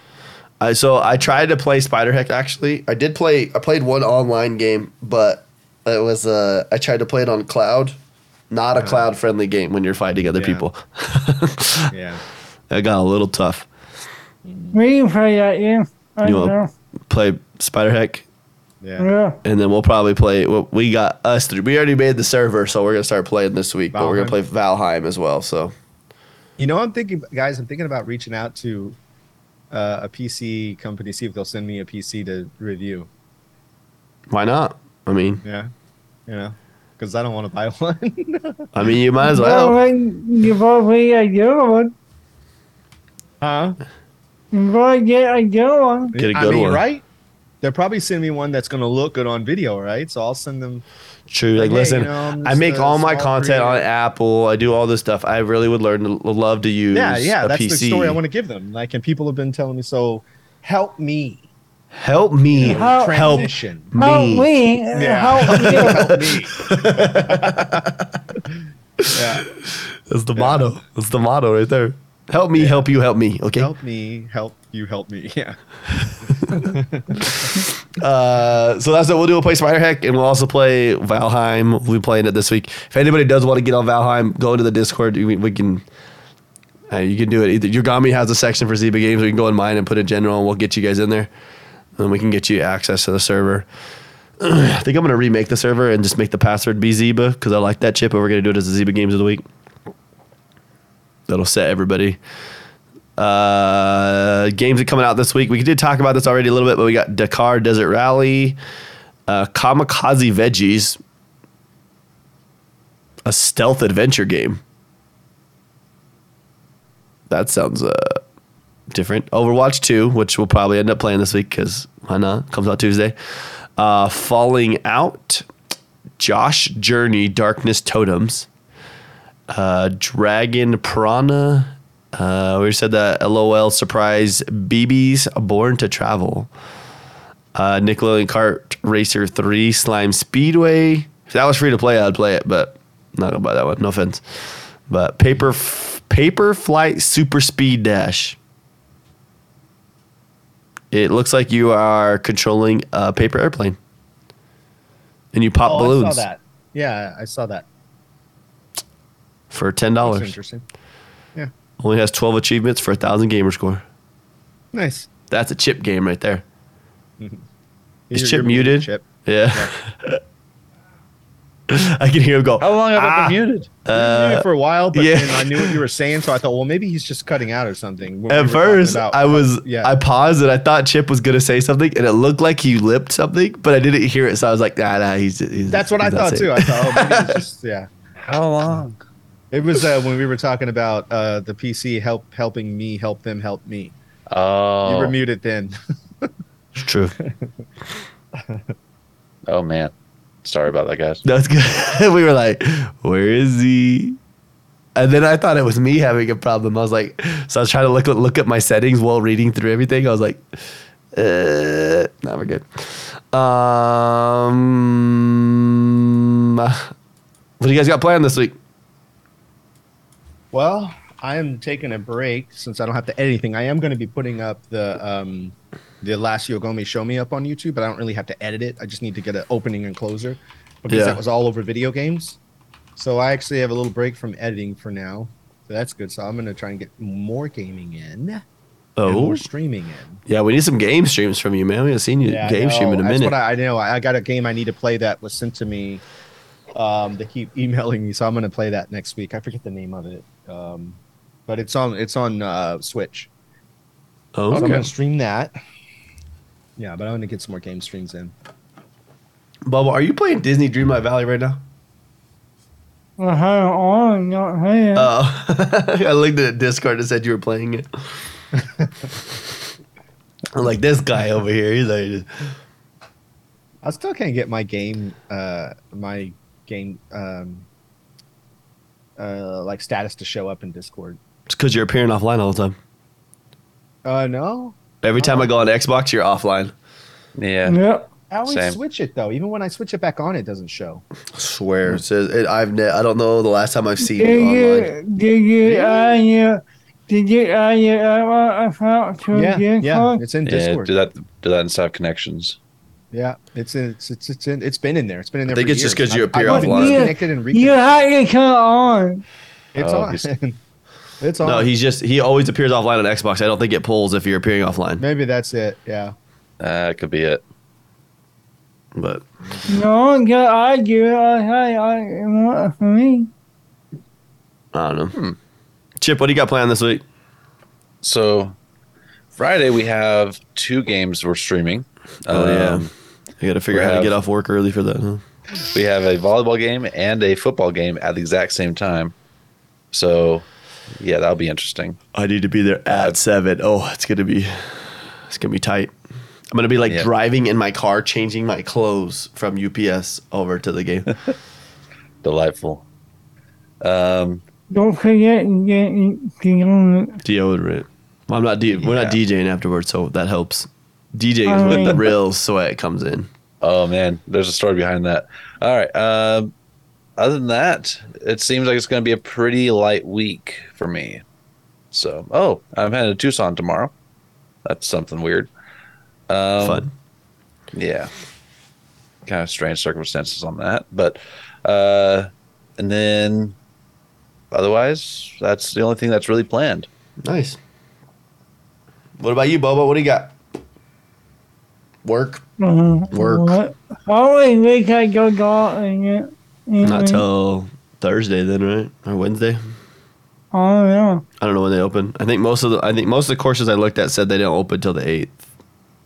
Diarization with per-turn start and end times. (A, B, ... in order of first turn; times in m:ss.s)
0:00.6-0:08.0 A
0:08.5-0:11.9 A
0:08.8-0:09.1 B
0:10.3-0:10.6 B
0:11.9-0:12.2 B
0:12.7-0:13.7 A
0:14.4-0:14.8 B
0:14.7-0:16.7 C
0:16.2-0:16.6 A
0:17.1-0:18.2 A
0:18.8-0:19.1 B
0:19.0-0:19.4 C
0:19.4-0:25.7 A
0:23.9-0:24.4 B
0:26.6-0:29.0 B
0:29.7-0:33.1 B
0:34.3-0:35.4 A
0:35.4-0:35.7 B
0:36.3-0:38.7 B
0:38.7-0:39.8 A
0:39.2-0:41.9 C
0:43.4-0:43.8 B
0:44.5-0:46.2 C
0:46.1-0:47.0 B
0:46.2-0:46.8 A
0:47.6-0:50.8 B
0:51.3-0:58.2 A
0:51.6-0:53.8 B
0:56.9-1:01.5 B
1:01.9-1:04.5 A
1:02.5-1:03.9 B
1:02.6-1:06.1 C
1:04.9-1:07.9 B
1:05.4-1:08.2 A
1:09.0-1:13.7 A
1:09.1-1:09.5 B
1:10.4-1:10.7 B
1:12.6-1:12.9 B
1:13.6-1:15.6 B
1:16.3-1:17.4 B
1:17.2-1:25.8 A
1:26.9-1:31.3 A
1:32.0-1:33.6 A
1:34.4-1:39.4 A
1:41.3-1:42.2 A
1:43.2-1:48.6 A
1:49.3-1:51.0 A
1:53.3-1:54.6 A
1:57.3-1:58.2 A
1:58.9-2:03.1 A
2:03.8-2:05.5 A
2:06.2-2:08.5 A
2:09.5-2:16.5 A
2:17.6-2:28.4 A
2:30.9-2:33.8 A
2:35.3-2:36.2 A
2:35.6-2:37.7 B
2:39.5-2:40.3 A
2:40.0-2:40.6 B
2:41.8-2:43.8 A
2:44.7-2:45.1 B
2:45.3-2:46.4 A
2:48.1-2:49.7 B
2:48.1-2:50.2 A
2:51.7-2:55.8 A
2:52.6-2:53.7 D
2:53.9-2:59.9 B
2:58.3-3:07.4 A
3:05.7-3:07.9 B
3:08.2-3:09.0 D
3:09.5-3:13.9 B
3:14.3-3:15.1 D
3:14.8-3:16.3 B
3:16.8-3:17.1 A
3:17.2-3:17.5 B
3:18.3-3:18.7 B
3:19.5-3:19.9 D
3:20.4-3:21.2 D
3:21.2-3:24.2 A
3:25.0-3:30.4 A
3:31.1-3:36.9 A
3:37.6-3:38.6 A
3:40.5-3:52.4 B
3:50.9-3:51.2 A
3:53.0-3:58.4 B
3:59.0-3:59.4 A
3:59.0-4:00.2 B
4:00.3-4:03.3 A
4:02.3-4:06.0 B
4:06.7-4:13.3 B
4:14.4-4:14.9 A
4:14.5-4:15.5 B
4:16.8-4:18.3 B
4:19.6-4:21.6 A
4:23.2-4:25.1 C
4:24.9-4:28.1 A
4:28.6-4:29.0 B
4:30.5-4:32.3 A
4:33.8-4:37.6 B
4:39.2-4:41.2 B
4:41.5-4:42.8 A
4:44.0-4:45.5 B
4:45.0-4:46.7 A
4:47.4-4:47.8 D
4:47.6-4:48.1 C
4:48.3-4:51.0 B
4:48.5-4:48.8 D
4:51.3-4:54.9 A
4:54.0-5:00.2 C
4:55.6-4:56.2 B
4:59.3-5:00.9 B
5:00.4-5:02.6 D
5:03.1-5:08.1 B
5:05.5-5:07.1 A
5:06.4-5:09.2 C
5:09.7-5:10.6 B
5:09.8-5:10.3 D
5:11.2-5:11.7 B
5:11.4-5:15.0 A
5:15.0-5:16.1 B
5:16.6-5:17.4 D
5:18.9-5:19.2 A
5:19.5-5:19.8 B
5:19.7-5:23.3 C
5:24.7-5:25.2 A
5:26.0-5:27.0 A
5:28.0-5:28.6 D
5:29.4-5:32.9 D
5:32.3-5:32.9 A
5:33.4-5:35.2 A
5:33.7-5:34.1 D
5:35.7-5:39.1 D
5:39.9-5:40.4 D
5:41.0-5:42.0 D
5:42.1-5:45.9 A
5:42.9-5:43.2 D
5:46.5-5:51.1 A
5:52.2-5:52.8 D
5:53.8-5:54.4 D
5:54.7-5:57.2 C
5:57.2-6:03.3 A
5:58.8-5:59.2 D
6:01.4-6:02.0 C
6:03.6-6:06.5 D
6:07.2-6:11.2 D
6:11.9-6:13.9 D
6:14.6-6:15.5 D
6:16.3-6:16.9 D
6:16.6-6:16.9 A
6:17.7-6:18.1 D
6:19.3-6:23.6 D
6:24.5-6:26.9 D
6:27.2-6:27.6 A
6:29.2-6:30.4 A
6:32.0-6:32.4 A
6:32.6-6:37.2 C
6:33.1-6:33.6 A
6:36.8-6:39.6 A
6:40.5-6:41.2 C
6:41.4-6:45.4 A